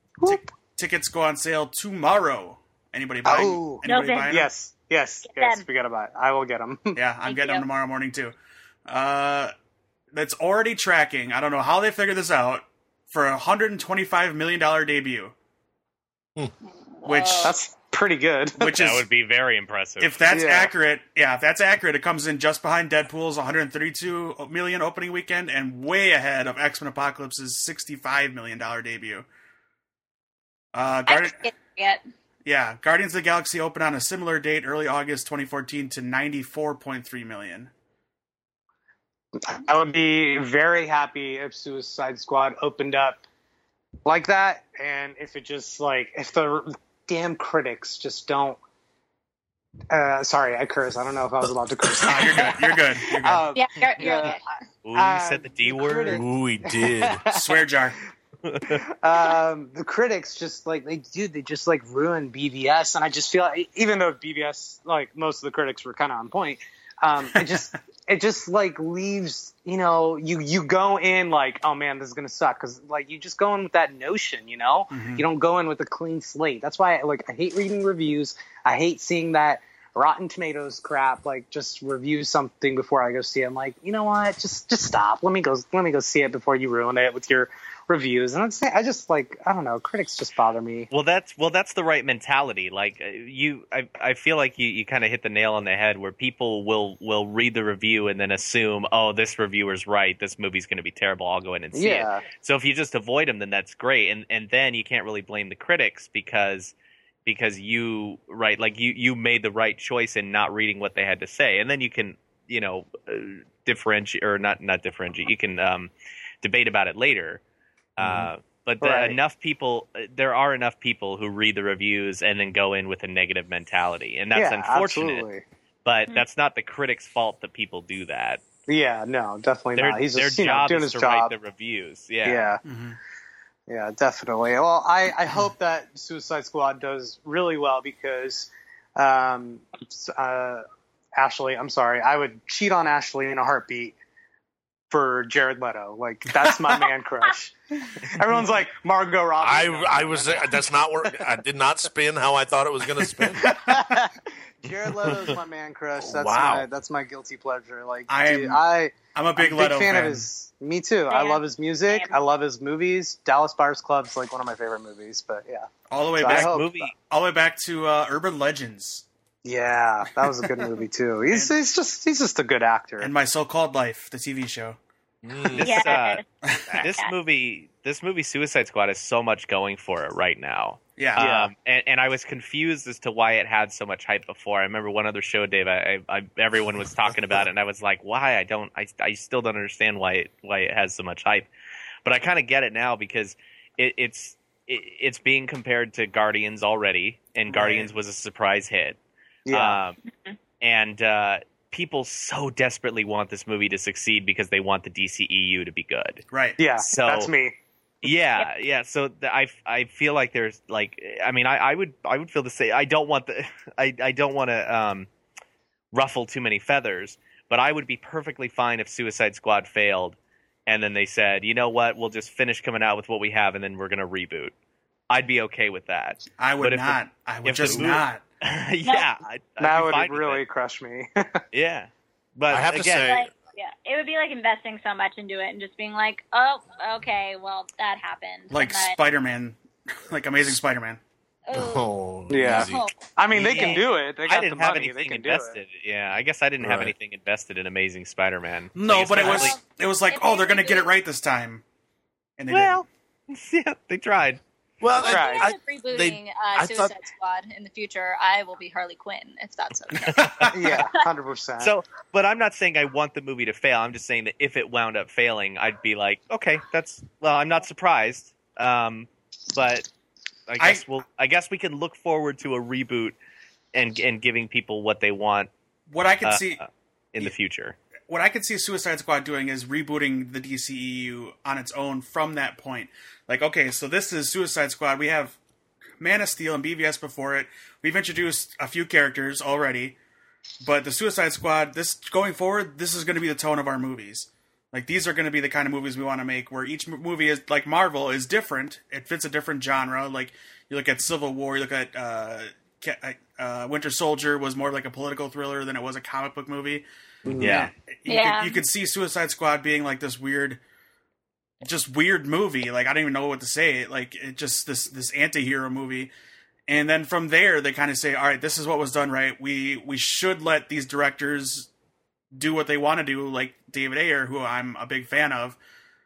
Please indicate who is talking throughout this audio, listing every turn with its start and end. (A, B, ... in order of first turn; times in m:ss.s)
0:00.2-0:04.5 A
0:03.2-0:07.0 B
0:03.8-0:04.3 C
0:05.2-0:05.6 C
0:06.9-0:08.4 A
0:07.2-0:07.6 C
0:08.9-0:09.5 A
0:10.1-0:15.3 A
0:17.0-0:17.6 C
0:17.0-0:17.6 A
0:17.4-0:18.7 B
0:18.6-0:19.0 A
0:18.7-0:20.2 D
0:20.0-0:29.3 A
0:20.3-0:20.7 B
0:30.7-0:31.4 A
0:31.1-0:32.0 C
0:32.4-0:37.7 A
0:39.4-0:43.2 B
0:44.0-0:48.6 B
0:49.9-0:54.4 B
0:52.0-0:53.4 A
0:53.5-0:54.4 C
0:54.8-0:56.2 D
0:54.9-0:57.6 B
0:56.1-0:57.2 E
0:57.3-0:58.0 A
0:58.5-0:58.8 D
0:58.7-1:30.9 B
1:14.9-1:15.2 A
1:30.9-1:46.7 D
1:41.7-1:42.2 B
1:47.2-1:57.4 D
1:58.0-2:05.2 D
1:58.0-1:58.3 E
1:58.8-1:59.2 B
2:04.4-2:05.4 B
2:05.8-2:08.4 D
2:08.7-2:11.3 B
2:09.8-2:12.5 D
2:12.2-2:12.6 B
2:12.6-2:13.0 A
2:13.7-2:20.6 B
2:21.2-2:23.9 B
2:24.9-2:31.2 B
2:29.4-2:33.6 E
2:33.4-2:34.1 A
2:33.4-2:34.1 B
2:34.6-2:46.9 B
2:36.0-2:36.6 E
2:38.1-2:38.6 A
2:39.1-2:40.3 A
2:41.1-2:42.1 C
2:45.9-2:49.0 A
2:46.2-2:46.9 D
2:49.4-2:53.1 B
2:51.3-2:51.5 A
2:53.0-2:54.8 A
2:55.2-2:55.8 E
2:55.5-3:11.5 D
2:55.6-2:56.2 C
2:56.8-2:57.1 C
3:01.0-3:01.3 A
3:01.2-3:01.5 B
3:12.0-3:19.0 D
3:17.5-3:17.9 A
3:19.5-3:19.8 B
3:19.5-3:20.0 D
3:20.6-3:26.2 D
3:26.3-3:26.6 A
3:26.6-3:27.5 B
3:26.8-3:27.3 D
3:28.0-3:35.1 D
3:35.9-3:44.5 D
3:45.1-3:50.4 D
3:46.4-3:48.2 A
3:49.6-3:51.4 B
3:51.5-3:53.1 D
3:52.5-3:53.3 E
3:53.0-3:59.0 C
3:58.5-4:01.0 A
4:01.5-4:01.8 C
4:01.5-4:02.8 E
4:02.3-4:05.6 B
4:02.5-4:02.9 C
4:03.3-4:09.6 D
4:03.5-4:03.8 C
4:06.6-4:06.9 E
4:08.8-4:11.6 A
4:09.2-4:10.9 C
4:12.4-4:12.8 A
4:12.5-4:14.4 D
4:14.8-4:16.9 E
4:15.0-4:21.0 C
4:15.0-4:15.5 B
4:20.0-4:20.5 A
4:20.0-4:20.6 D
4:20.5-4:21.7 B
4:21.6-4:29.9 D
4:30.5-4:33.2 D
4:30.6-4:30.8 A
4:33.7-4:35.5 D
4:35.9-4:36.6 A
4:36.2-4:37.8 D
4:38.1-4:45.4 A
4:46.0-4:50.0 A
4:50.6-5:06.8 A
5:07.3-5:07.6 B
5:07.4-5:07.7 D
5:07.4-5:10.6 A
5:08.1-5:08.6 C
5:11.6-5:16.1 A
5:16.7-5:21.7 A
5:22.3-5:25.6 A